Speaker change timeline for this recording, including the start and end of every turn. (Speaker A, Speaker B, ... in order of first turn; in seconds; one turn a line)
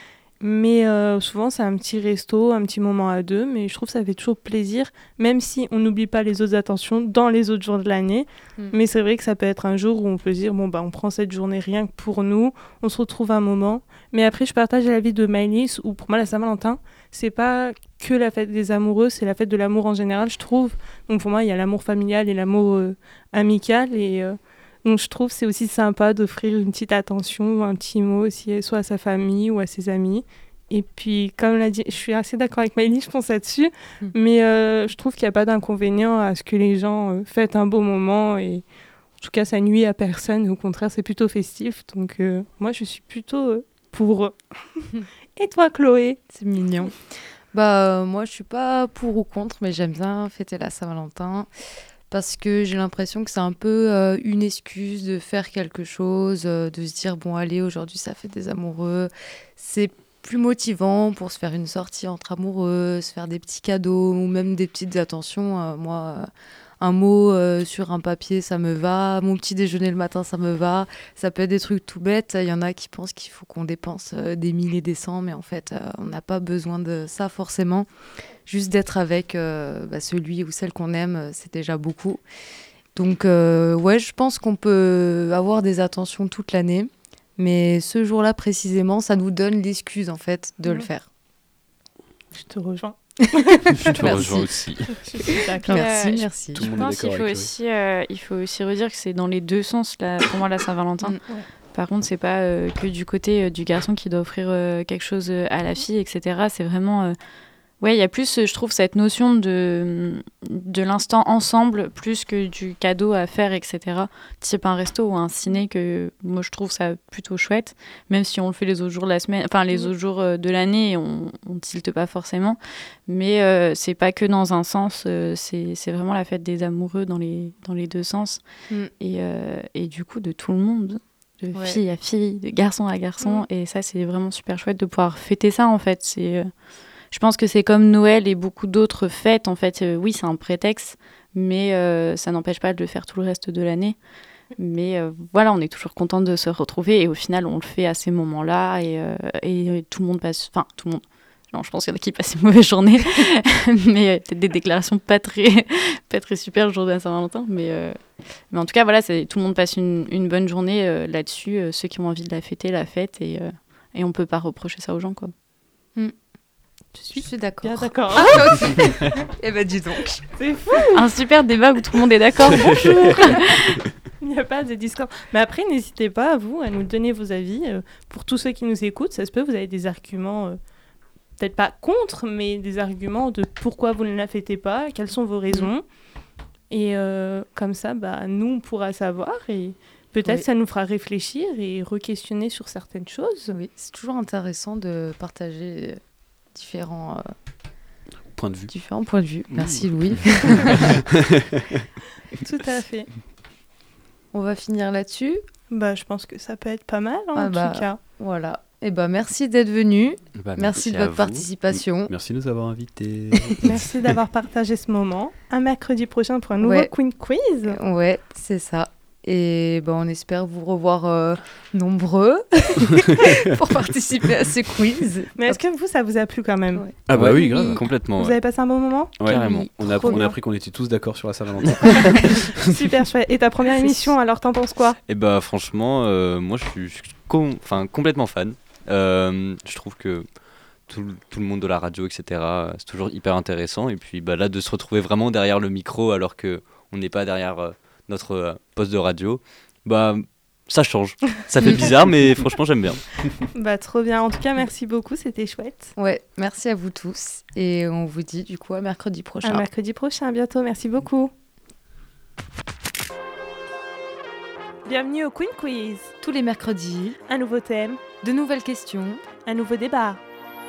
Speaker A: 0.4-38.6
Speaker A: 39.2-46.2
Speaker B: 46.3-47.0
Speaker B: 47.5-51.5
Speaker B: 52.1-66.3
Speaker B: 66.8-77.9
Speaker B: 78.5-82.2
Speaker B: 83.0-91.0
Speaker A: 92.3-94.3
Speaker B: 93.7-94.5
Speaker C: 93.8-94.9
Speaker A: 94.9-96.1
Speaker D: 95.6-101.2
Speaker B: 95.6-96.7
Speaker E: 96.5-97.5
Speaker D: 101.7-107.1
Speaker D: 107.8-128.4
Speaker D: 129.0-136.5
Speaker D: 137.1-144.0
Speaker D: 144.6-158.0
Speaker D: 158.5-165.3
Speaker A: 167.0-169.0
Speaker B: 167.1-170.2
Speaker A: 170.4-171.1
Speaker D: 170.9-173.8
Speaker A: 172.6-173.4
Speaker A: 174.2-180.6
Speaker A: 181.4-185.8
Speaker A: 186.7-193.5
Speaker B: 193.5-196.0
Speaker B: 196.5-197.3
Speaker E: 198.3-198.7
Speaker B: 198.7-201.0
Speaker E: 199.5-199.9
Speaker E: 200.5-201.8
Speaker A: 202.3-203.1
Speaker B: 204.3-205.4
Speaker A: 205.7-208.0
Speaker B: 207.3-212.1
Speaker C: 210.4-211.5
Speaker E: 212.1-214.0
Speaker A: 213.6-217.8
Speaker B: 216.6-216.9
Speaker B: 217.7-225.6
Speaker A: 225.4-226.8
Speaker E: 227.1-227.8
Speaker C: 227.1-228.4
Speaker D: 227.1-227.8
Speaker A: 228.1-229.2
Speaker E: 229.2-232.7
Speaker C: 229.3-229.8
Speaker D: 229.3-230.3
Speaker A: 232.1-235.0
Speaker B: 233.8-234.1
Speaker C: 235.1-240.3
Speaker C: 240.9-253.1
Speaker A: 253.4-255.9
Speaker B: 256.0-259.7
Speaker A: 259.4-261.3
Speaker A: 264.9-266.1
Speaker B: 266.2-267.2
Speaker A: 267.3-268.0
Speaker B: 268.2-269.2
Speaker A: 269.4-270.2